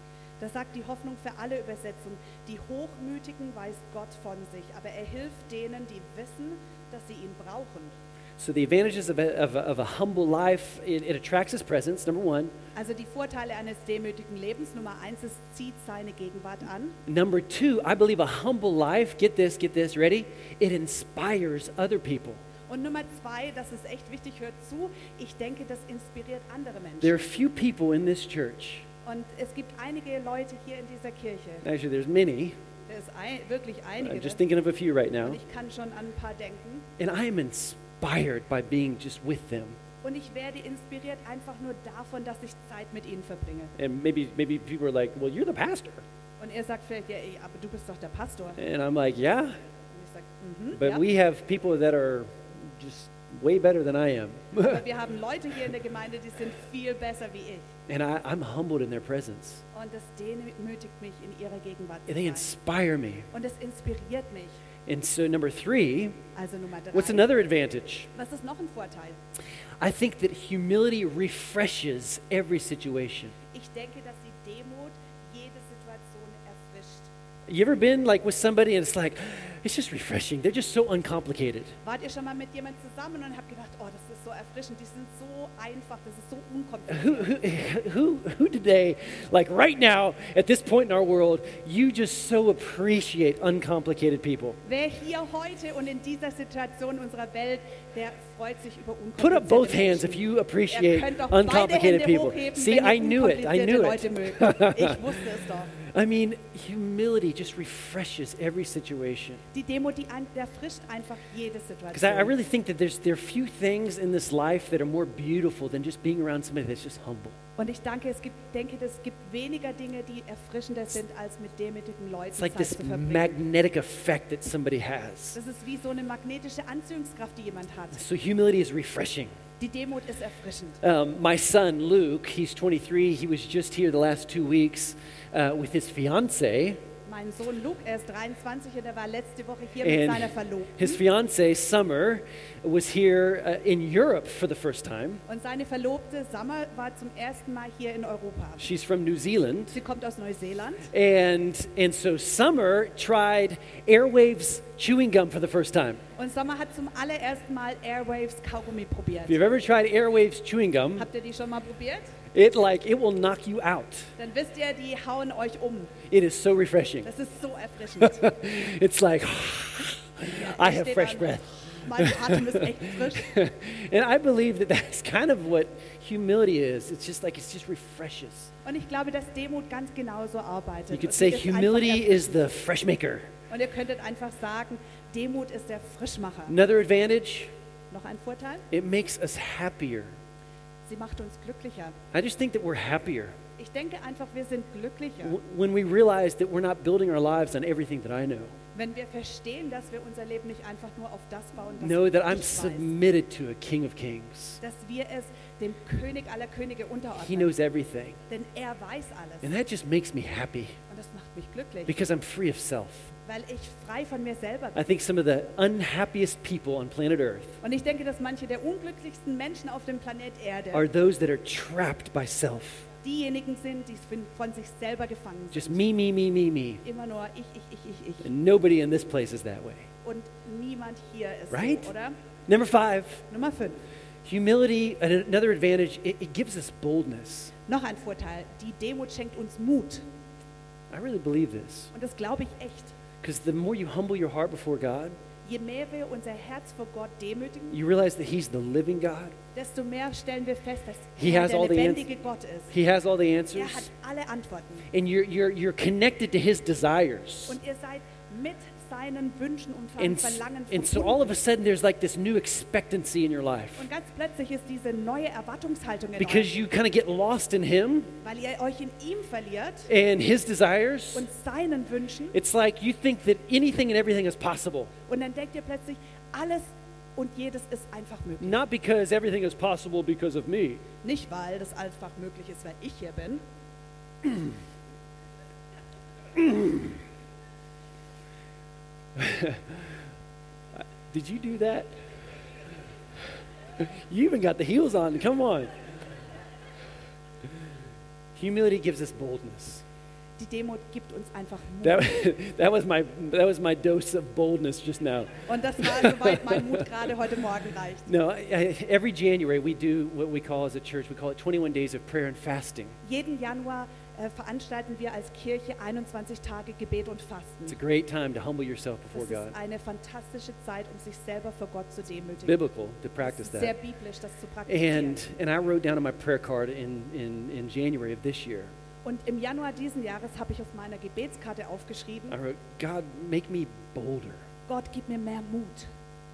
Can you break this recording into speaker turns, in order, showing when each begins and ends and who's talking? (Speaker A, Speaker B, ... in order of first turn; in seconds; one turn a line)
Speaker A: 0.4-7.9
Speaker B: 8.4-12.5
Speaker A: 12.7-17.0
Speaker B: 17.1-22.4
Speaker A: 22.7-27.1
Speaker B: 27.0-28.9
Speaker A: 29.0-31.6
Speaker B: 31.6-32.6
Speaker A: 32.9-34.4
Speaker B: 34.0-35.4
Speaker A: 35.2-36.9
Speaker B: 37.0-39.8
Speaker A: 40.0-43.7
Speaker B: 43.8-46.0
Speaker A: 46.4-48.6
Speaker B: 48.6-49.5
Speaker A: 49.9-51.0
Speaker B: 50.7-54.8
Speaker A: 54.6-57.7
Speaker B: 57.9-59.6
Speaker A: 59.7-62.5
Speaker B: 62.1-63.3
Speaker A: 63.3-64.6
Speaker B: 64.8-66.2
Speaker A: 66.3-67.3
Speaker B: 66.9-68.1
Speaker A: 68.1-69.2
Speaker B: 69.8-73.3
Speaker A: 73.5-77.1
Speaker B: 77.5-81.7
Speaker A: 81.8-87.3
Speaker B: 86.9-94.6
Speaker A: 94.6-105.7
Speaker B: 99.2-105.0
Speaker B: 105.7-109.4
Speaker A: 109.5-112.3
Speaker B: 111.9-117.4
Speaker A: 117.6-123.4
Speaker B: 122.3-125.4
Speaker A: 125.3-128.0
Speaker B: 127.9-129.3
Speaker A: 129.6-130.8
Speaker B: 130.8-136.8
Speaker A: 137.1-141.0
Speaker B: 139.8-145.2
Speaker A: 145.2-148.6
Speaker B: 148.6-149.8
Speaker A: 149.7-150.9
Speaker B: 150.9-156.0
Speaker A: 156.2-159.4
Speaker B: 159.3-161.1
Speaker A: 160.9-162.2
Speaker B: 162.3-164.1
Speaker A: 164.2-166.0
Speaker B: 166.1-167.1
Speaker A: 167.0-168.3
Speaker B: 168.0-178.5
Speaker A: 170.3-173.3
Speaker A: 178.6-182.5
Speaker B: 180.9-183.3
Speaker A: 183.5-186.5
Speaker B: 186.5-187.5
Speaker A: 187.9-188.7
Speaker B: 188.7-190.2
Speaker A: 190.8-192.0
Speaker B: 192.1-193.3
Speaker A: 193.6-195.4
Speaker B: 195.2-198.6
Speaker A: 198.7-202.9
Speaker B: 201.8-204.6
Speaker A: 204.6-207.5
Speaker B: 207.1-208.2
Speaker A: 208.3-209.5
Speaker B: 209.4-210.8
Speaker A: 210.9-211.9
Speaker B: 211.8-213.1
Speaker A: 213.2-214.8
Speaker B: 214.7-217.6
Speaker A: 217.6-220.9
Speaker B: 220.7-222.9
Speaker A: 223.0-225.8
Speaker B: 225.5-226.8
Speaker A: 226.8-228.3
Speaker B: 228.2-229.9
Speaker A: 230.0-232.1
Speaker B: 231.5-231.9
Speaker B: 232.5-233.2
Speaker A: 233.3-233.8
Speaker B: 234.2-237.5
Speaker A: 237.7-240.0
Speaker B: 240.9-241.9
Speaker A: 241.9-242.9
Speaker B: 243.2-245.2
Speaker A: 245.4-247.8
Speaker B: 247.7-249.3
Speaker A: 249.5-252.7
Speaker B: 251.2-252.0
Speaker B: 252.7-253.9
Speaker A: 253.5-254.9
Speaker B: 254.9-257.6
Speaker A: 257.5-261.3
Speaker B: 260.0-263.9
Speaker A: 263.8-266.5
Speaker B: 266.2-268.1
Speaker A: 268.2-269.9
Speaker B: 269.9-271.3
Speaker A: 271.1-272.3
Speaker B: 272.3-274.9
Speaker A: 275.1-278.6
Speaker B: 278.4-280.8
Speaker A: 281.0-283.4
Speaker B: 284.2-284.5
Speaker B: 286.3-287.0
Speaker B: 289.1-289.9
Speaker B: 290.7-291.9
Speaker B: 293.8-295.7
Speaker B: 298.3-299.8
Speaker A: 300.4-302.3
Speaker B: 301.8-306.9
Speaker A: 305.5-308.1
Speaker B: 308.1-313.0
Speaker A: 313.0-317.8
Speaker B: 317.7-319.5
Speaker A: 319.1-322.6
Speaker B: 322.4-323.7
Speaker A: 323.2-325.2
Speaker B: 324.7-328.7
Speaker A: 329.0-332.4
Speaker B: 332.3-334.4
Speaker A: 334.7-335.9